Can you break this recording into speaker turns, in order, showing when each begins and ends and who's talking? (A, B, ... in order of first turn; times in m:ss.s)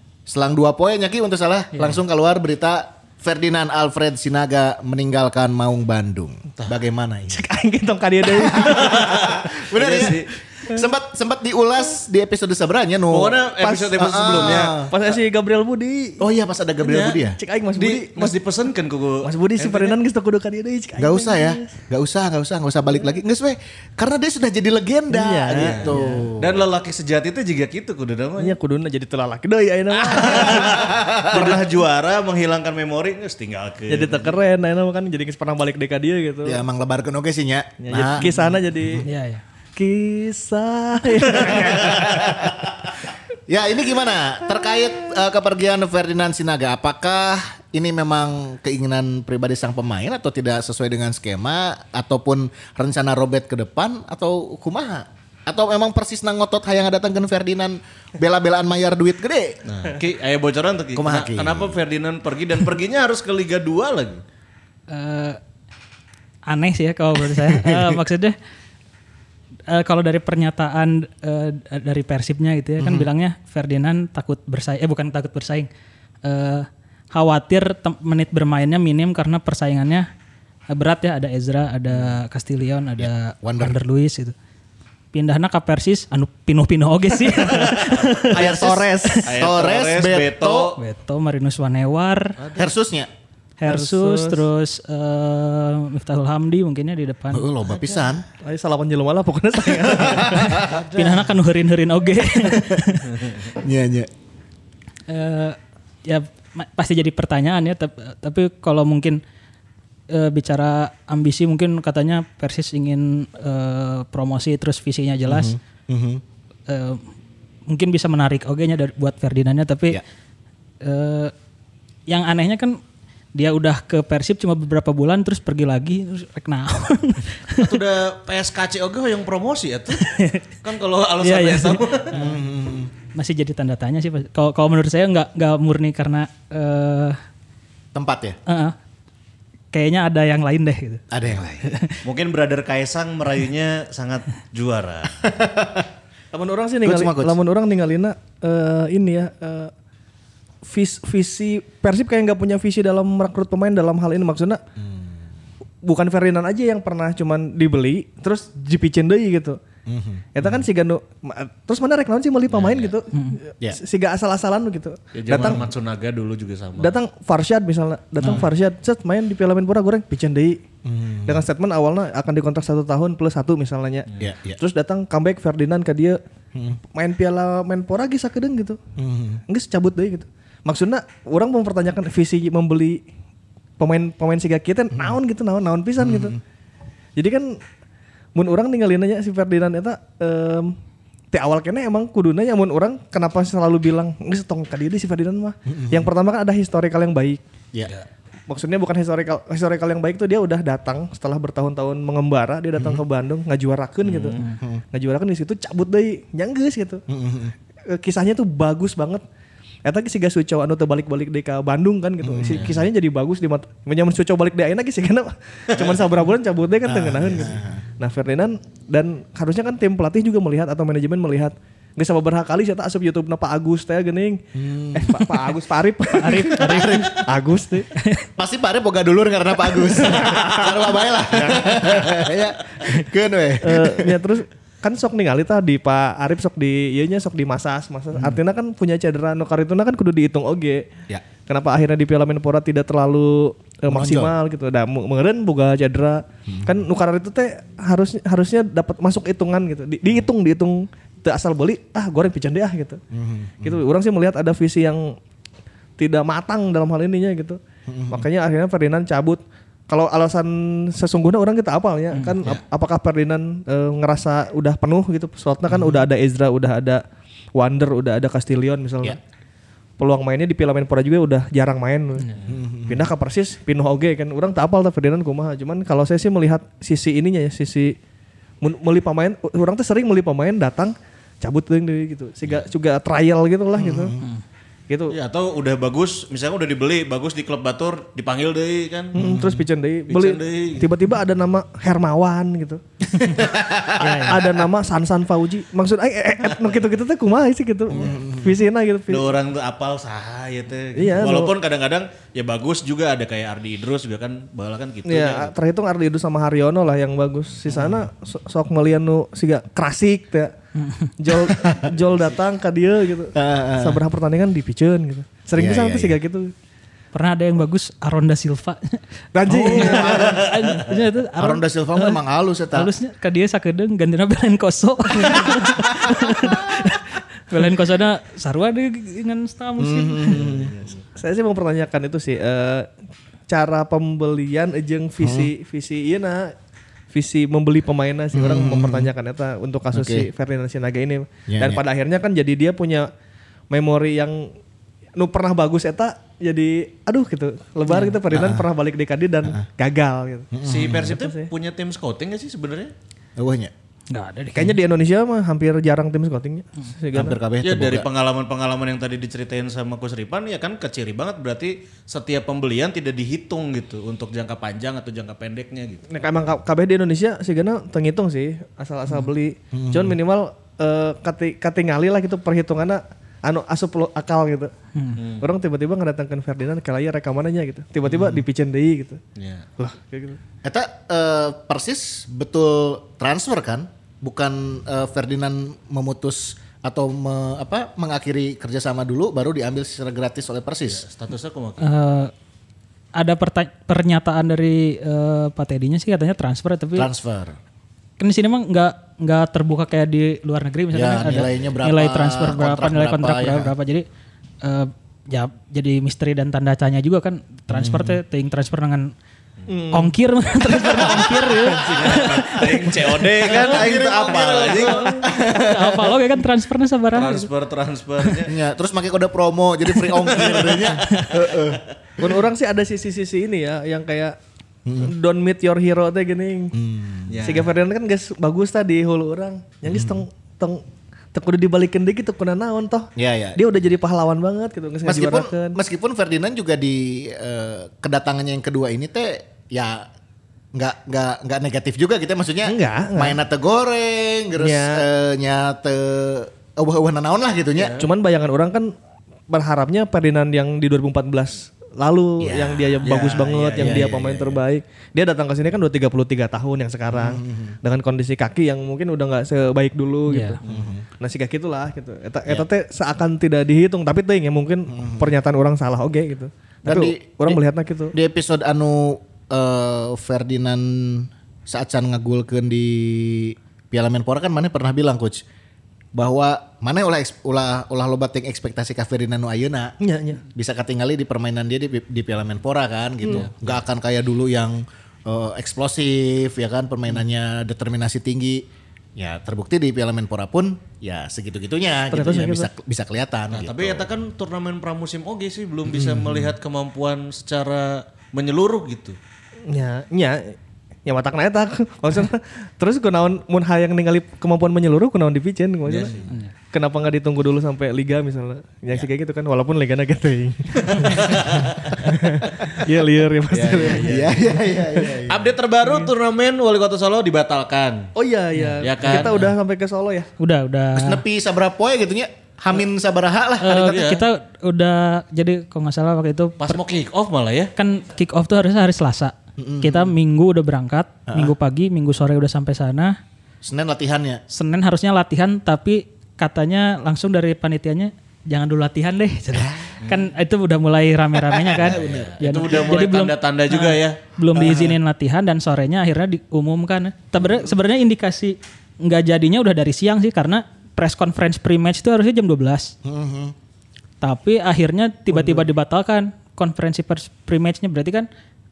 0:00.3-0:07.4 A
0:01.7-0:02.0 B
0:07.3-0:10.2 C
0:08.2-0:14.9 A
0:08.9-0:10.3 D
0:13.1-0:14.8 D
0:14.7-0:16.2 C
0:16.2-0:17.4 A
0:16.8-0:17.2 D
0:17.4-0:18.4 C
0:17.8-0:20.0 D
0:19.2-0:21.7 C
0:21.0-0:26.6 A
0:25.1-0:26.2 C
0:25.5-0:28.6 D
0:28.4-0:31.6 C
0:29.9-0:34.3 D
0:30.6-0:31.6 A
0:33.9-0:36.6 C
0:36.4-0:38.3 A
0:37.8-0:39.1 C
0:39.0-0:39.4 B
0:39.8-0:42.5 C
0:41.4-0:41.9 D
0:41.9-0:42.5 A
0:43.5-0:59.6 A
0:59.6-1:04.2 D
1:00.9-1:01.8 A
1:04.9-1:05.4 B
1:06.5-1:08.4 B
1:09.7-1:15.7 B
1:12.8-1:13.1 A
1:16.2-1:20.1 B
1:20.7-1:24.3 B
1:23.0-1:23.8 A
1:25.1-1:28.4 B
1:28.3-1:30.8 A
1:28.3-1:28.9 C
1:29.2-1:30.8 D
1:30.8-1:32.3 B
1:32.4-1:32.7 D
1:32.5-1:33.1 A
1:33.6-1:37.5 B
1:33.6-1:34.4 C
1:37.3-1:38.2 A
1:38.4-1:40.7 C
1:40.0-1:40.8 A
1:40.6-1:41.2 D
1:40.9-1:43.2 B
1:43.5-1:44.1 A
1:45.1-1:49.2 B
1:50.1-1:55.6 B
1:55.3-1:56.2 A
1:56.7-1:57.0 B
1:57.7-2:00.0 B
2:00.8-2:01.3 B
2:02.1-2:02.8 B
2:03.3-2:07.8 B
2:07.6-2:12.2 D
2:10.0-2:10.4 B
2:11.2-2:11.8 B
2:12.1-2:12.9 A
2:13.1-2:17.2 B
2:17.9-2:18.4 A
2:18.5-2:18.7 B
2:19.7-2:21.0 B
2:21.1-2:21.8 A
2:21.6-2:22.0 B
2:22.0-2:25.2 D
2:25.2-2:25.9 A
2:26.3-2:29.7 C
2:26.8-2:27.4 A
2:30.6-2:34.6 C
2:35.8-2:39.6 C
2:39.9-2:40.6 A
2:40.3-2:45.7 C
2:42.5-2:43.0 D
2:43.1-2:43.4 B
2:45.1-2:47.0 D
2:46.8-2:50.6 C
2:50.8-2:51.4 A
2:51.2-2:56.2 C
2:54.2-2:54.6 A
2:56.9-2:58.8 C
2:59.0-2:59.4 A
2:59.5-3:03.0 C
3:03.8-3:06.4 C
3:06.0-3:06.4 A
3:07.2-3:07.6 C
3:08.3-3:10.7 C
3:11.3-3:17.4 C
3:15.7-3:16.1 A
3:18.5-3:24.4 C
3:22.8-3:23.0 A
3:24.0-3:24.4 D
3:24.4-3:24.8 A
3:24.9-3:27.0 C
3:27.1-3:27.5 A
3:27.9-3:29.2 C
3:29.8-3:47.9 C
3:32.2-3:32.7 A
3:32.5-3:32.8 D
3:35.7-3:36.0 D
3:36.8-3:37.8 A
3:44.5-3:45.2 A
3:46.2-3:47.2 B
3:47.9-3:48.2 B
3:48.4-3:54.2 A
3:50.0-3:50.7 C
3:53.6-4:00.9 C
4:01.4-4:13.0 C
4:03.9-4:04.3 A
4:06.5-4:06.7 A
4:13.1-4:13.8 A
4:13.6-4:15.2 C
4:16.0-4:27.0 C
4:17.9-4:18.2 A
4:25.7-4:26.1 A
4:27.5-4:29.2 C
4:30.0-4:32.3 C
4:32.5-4:33.1 A
4:32.9-4:38.0 C
4:38.6-4:44.1 C
4:43.7-4:44.2 A
4:44.9-4:45.2 C
4:45.1-4:49.3 D
4:49.1-4:59.3 C
4:49.2-4:49.7 A
4:50.1-4:50.9 D
4:53.2-4:54.5 A
4:54.0-4:54.4 B
4:56.4-4:56.8 D
4:57.9-4:58.2 D
4:57.9-4:58.6 A
4:59.1-5:05.5 D
5:01.0-5:01.5 C
5:05.0-5:10.5 C
5:07.7-5:08.0 A
5:10.8-5:11.1 B
5:11.2-5:16.5 C
5:11.5-5:11.8 A
5:13.3-5:14.0 A
5:15.6-5:16.2 A
5:17.1-5:22.2 B
5:19.3-5:20.4 C
5:19.6-5:20.9 D
5:19.7-5:20.4 A
5:21.4-5:22.9 A
5:22.7-5:30.4 B
5:29.8-5:30.7 A
5:30.4-5:31.0 D
5:31.2-5:32.9 C
5:33.5-5:36.5 C
5:35.2-5:35.5 A
5:37.1-5:43.1 C
5:38.3-5:39.1 A
5:39.9-5:40.3 A
5:41.5-5:41.8 A
5:43.7-5:44.5 C
5:45.2-5:51.5 C
5:47.9-5:48.2 B
5:48.3-5:48.7 A
5:50.5-5:51.1 A
5:50.6-5:52.9 D
5:53.4-5:53.7 A
5:54.1-5:54.8 B
5:54.5-5:57.4 C
5:57.1-5:58.1 A
5:57.6-6:06.0 D
6:06.1-6:14.7 C
6:09.7-6:10.2 A
6:14.9-6:15.2 B
6:15.2-6:15.5 D
6:15.4-6:19.2 C
6:18.1-6:18.4 A
6:19.4-6:19.7 D
6:19.8-6:20.4 C
6:20.6-6:31.0 A
6:30.9-6:31.9 D
6:31.8-6:32.3 B
6:33.1-6:37.1 B
6:36.9-6:37.6 A
6:38.2-6:44.0 B
6:40.9-6:43.7 A
6:44.6-6:49.1 B
6:47.7-6:48.2 A
6:49.7-6:50.1 C
6:49.9-6:53.0 B
6:50.9-6:52.5 C
6:51.9-6:55.2 D
6:53.4-6:56.2 A
6:53.6-6:55.2 C
6:55.3-6:57.5 B
6:57.1-6:58.6 D
6:58.4-7:02.4 A
7:00.2-7:01.2 D
7:01.0-7:01.3 B
7:02.2-7:04.4 C
7:04.8-7:05.1 A
7:05.0-7:06.8 C
7:06.7-7:07.3 A
7:07.3-7:07.8 D
7:07.4-7:15.8 C
7:09.9-7:10.2 A
7:13.2-7:13.6 A
7:15.0-7:20.1 A
7:20.7-7:28.0 A
7:22.6-7:23.4 C
7:24.6-7:25.0 C
7:27.7-7:28.1 D
7:28.0-7:28.9 C
7:29.5-7:40.6 C
7:32.4-7:33.1 A
7:33.0-7:34.3 D
7:33.8-7:34.6 A
7:37.1-7:37.8 A
7:40.3-7:40.6 B
7:40.7-7:41.0 A
7:41.2-7:48.1 C
7:44.9-7:45.4 A
7:46.8-7:47.6 A
7:48.1-7:55.4 A
7:56.1-8:00.0 A
8:00.0-8:00.4 C
8:00.5-8:14.1 A
8:12.1-8:12.7 C
8:13.5-8:19.2 D
8:15.9-8:16.5 A
8:19.7-8:26.1 C
8:25.8-8:26.3 D
8:26.7-8:35.2 C
8:30.9-8:32.0 D
8:33.5-8:34.3 D
8:34.0-8:35.4 A
8:35.3-8:38.1 D
8:38.2-8:40.3 C
8:38.8-8:39.5 D
8:40.4-8:41.2 B
8:41.0-8:43.9 A
8:43.6-8:46.8 B
8:43.7-8:44.2 D
8:46.6-8:47.7 D
8:47.8-8:53.2 B
8:49.6-8:50.1 A
8:51.3-8:51.5 A
8:53.6-8:54.4 A
8:54.5-9:12.9 B
8:59.5-9:00.0 A
9:00.0-9:00.3 D
9:01.5-9:02.4 A
9:01.8-9:04.2 D
9:13.0-9:13.5 A
9:14.2-9:18.3 B